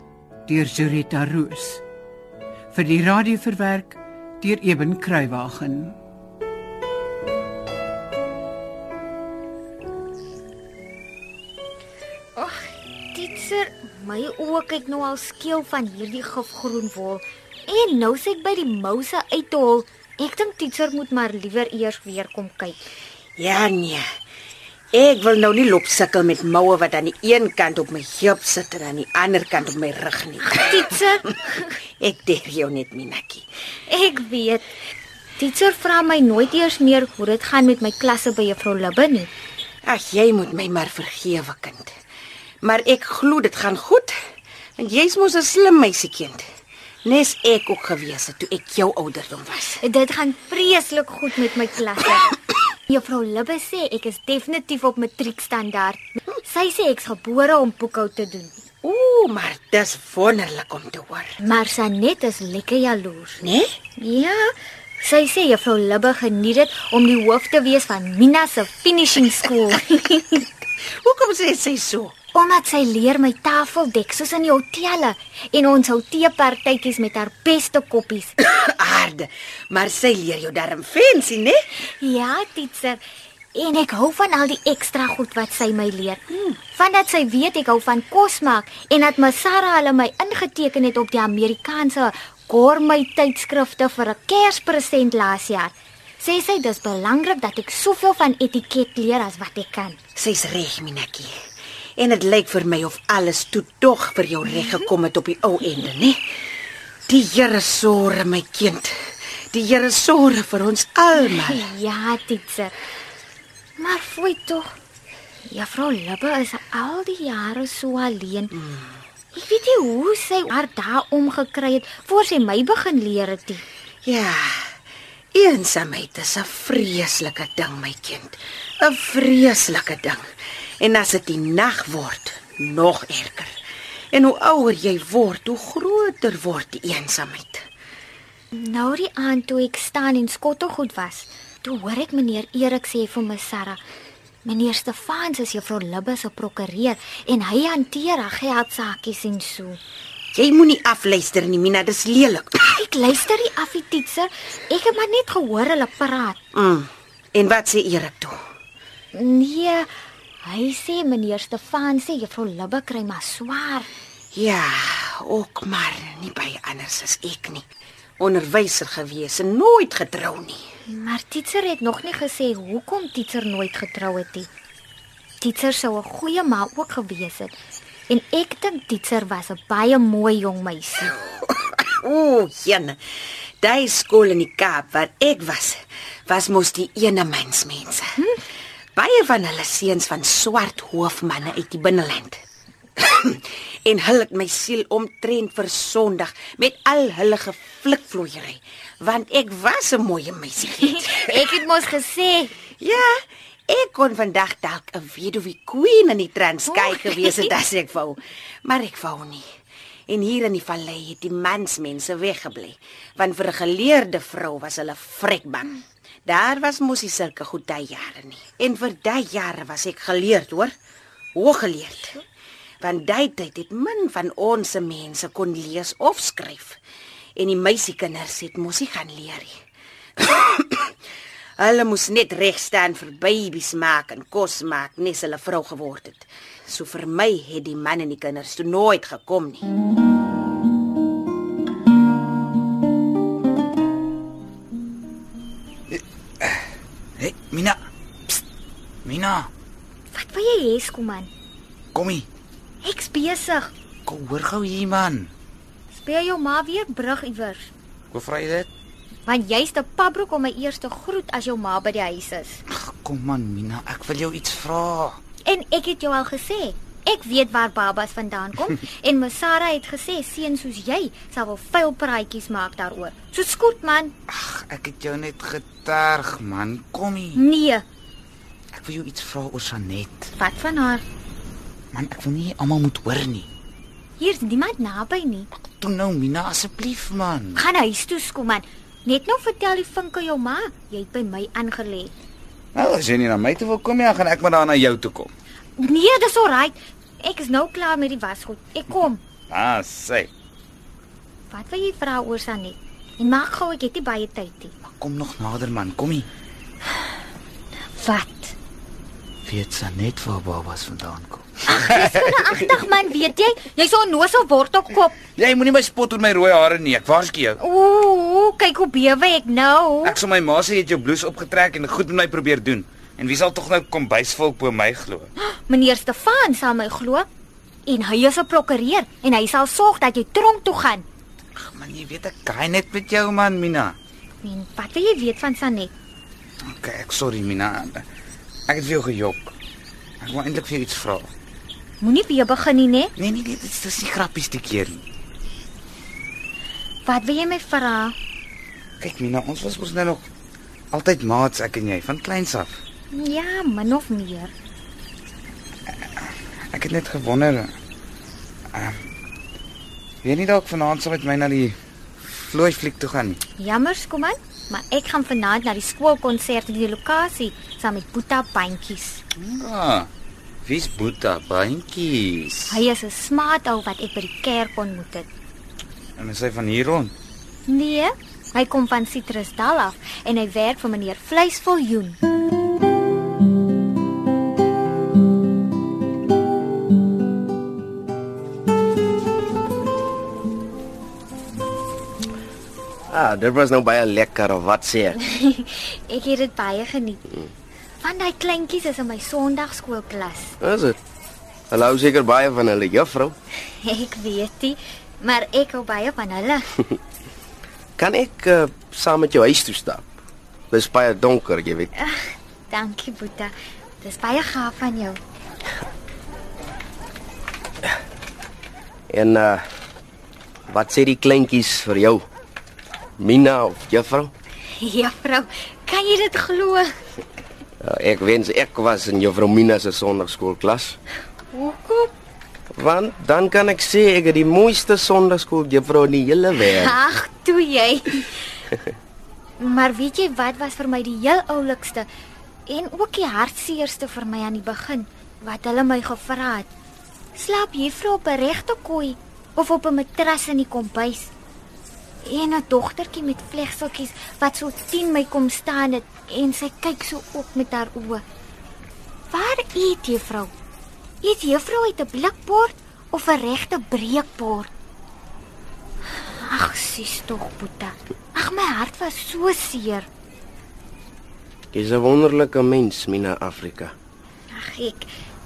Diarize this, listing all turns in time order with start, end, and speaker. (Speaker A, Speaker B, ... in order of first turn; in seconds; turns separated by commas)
Speaker A: 0.5-1.8, Speaker A: 2.7-6.0, Speaker B: 12.4-22.8, Speaker C: 23.4-24.0, Speaker C: 24.9-31.0, Speaker B: 30.4-31.6, Speaker C: 32.0-33.4, Speaker B: 33.9-34.6, Speaker B: 35.4-39.3, Speaker C: 39.9-41.9, Speaker C: 42.6-44.1, Speaker C: 44.8-46.4, Speaker C: 47.0-49.8, Speaker B: 49.8-52.3, Speaker B: 52.9-58.6, Speaker C: 58.8-61.4, Speaker B: 61.4-63.4, Speaker C: 63.4-63.8, Speaker B: 64.0-70.4, Speaker C: 71.0-72.1, Speaker B: 72.3-78.3, Speaker C: 78.4-81.7, Speaker B: 82.0-83.0, Speaker B: 83.5-86.2, Speaker B: 86.7-100.0, Speaker C: 100.2-101.3, Speaker C: 102.0-106.2, Speaker C: 107.1-109.0, Speaker C: 109.5-111.7, Speaker B: 111.2-112.8, Speaker B: 113.8-114.7, Speaker B: 115.5-118.5, Speaker C: 118.5-119.0, Speaker B: 119.3-123.6, Speaker C: 124.0-124.7, Speaker C: 125.3-130.2, Speaker C: 130.8-133.5, Speaker C: 134.1-137.6, Speaker B: 138.5-143.8, Speaker B: 144.4-149.8, Speaker C: 150.3-152.6, Speaker B: 152.6-156.4, Speaker C: 156.5-158.3, Speaker B: 159.1-159.9, Speaker B: 160.4-163.9, Speaker C: 164.3-167.7, Speaker C: 168.2-170.6, Speaker B: 170.9-174.5, Speaker B: 175.4-177.5, Speaker B: 178.1-181.1, Speaker C: 181.1-183.0, Speaker C: 183.6-188.2, Speaker C: 188.9-192.4, Speaker C: 193.0-201.5, Speaker B: 201.1-202.5, Speaker C: 202.8-203.2, Speaker C: 203.7-209.4, Speaker B: 206.8-207.4, Speaker C: 210.1-220.7, Speaker C: 221.3-222.2, Speaker C: 222.8-226.8, Speaker C: 227.4-229.6, Speaker C: 230.2-230.9, Speaker C: 231.6-239.7, Speaker D: 245.9-246.6, Speaker D: 247.2-247.8, Speaker D: 249.1-249.5, Speaker B: 250.1-251.3, Speaker D: 251.9-252.3, Speaker B: 252.8-253.7, Speaker D: 254.1-255.3, Speaker B: 255.9-257.7, Speaker D: 258.1-258.7, Speaker B: 259.2-262.6, Speaker D: 262.7-265.2, Speaker B: 265.4-274.1, Speaker D: 274.3-277.4, Speaker B: 277.3-277.8, Speaker D: 278.8-280.3, Speaker B: 280.4-281.0, Speaker D: 281.9-283.5, Speaker B: 284.2-285.5, Speaker D: 285.7-287.6, Speaker B: 287.6-292.1, Speaker D: 292.7-295.3, Speaker B: 295.8-299.2, Speaker D: 299.5-300.3, Speaker B: 301.5-304.7, Speaker D: 304.8-306.3, Speaker B: 307.9-308.6, Speaker D: 309.4-312.3, Speaker B: 311.7-315.1, Speaker D: 315.4-317.6, Speaker B: 317.6-320.2, Speaker D: 320.0-325.3, Speaker B: 325.4-327.3, Speaker B: 327.9-331.1, Speaker D: 331.6-333.9, Speaker B: 334.4-335.9, Speaker D: 336.7-338.0, Speaker D: 338.7-339.5, Speaker D: 340.2-341.3, Speaker B: 342.0-343.1, Speaker D: 343.2-345.0, Speaker B: 347.1-348.1, Speaker D: 349.0-350.2, Speaker D: 350.9-352.8, Speaker B: 353.1-354.5, Speaker D: 356.7-357.7, Speaker D: 360.2-363.4, Speaker B: 363.6-369.2, Speaker D: 369.4-370.1, Speaker D: 370.6-372.8, Speaker B: 372.7-375.3, Speaker D: 376.2-377.1, Speaker B: 377.7-382.2, Speaker E: 393.1-395.1, Speaker B: 395.2-397.3, Speaker B: 398.0-400.6, Speaker E: 400.6-400.9, Speaker E: 401.7-403.3, Speaker B: 403.8-406.7, Speaker E: 408.0-410.0, Speaker E: 410.7-411.9, Speaker B: 411.9-415.2, Speaker E: 419.1-419.6, Speaker E: 420.7-422.2, Speaker E: 423.2-424.3, Speaker B: 424.8-427.0, Speaker E: 427.8-431.0, Speaker B: 431.5-432.1, Speaker E: 432.7-436.9, Speaker B: 436.6-438.4, Speaker B: 439.6-442.1, Speaker B: 442.7-446.7, Speaker B: 447.3-451.3, Speaker B: 452.2-458.2, Speaker B: 459.3-460.5, Speaker B: 461.2-464.7, Speaker B: 466.3-470.1, Speaker E: 471.7-473.9, Speaker B: 474.5-475.1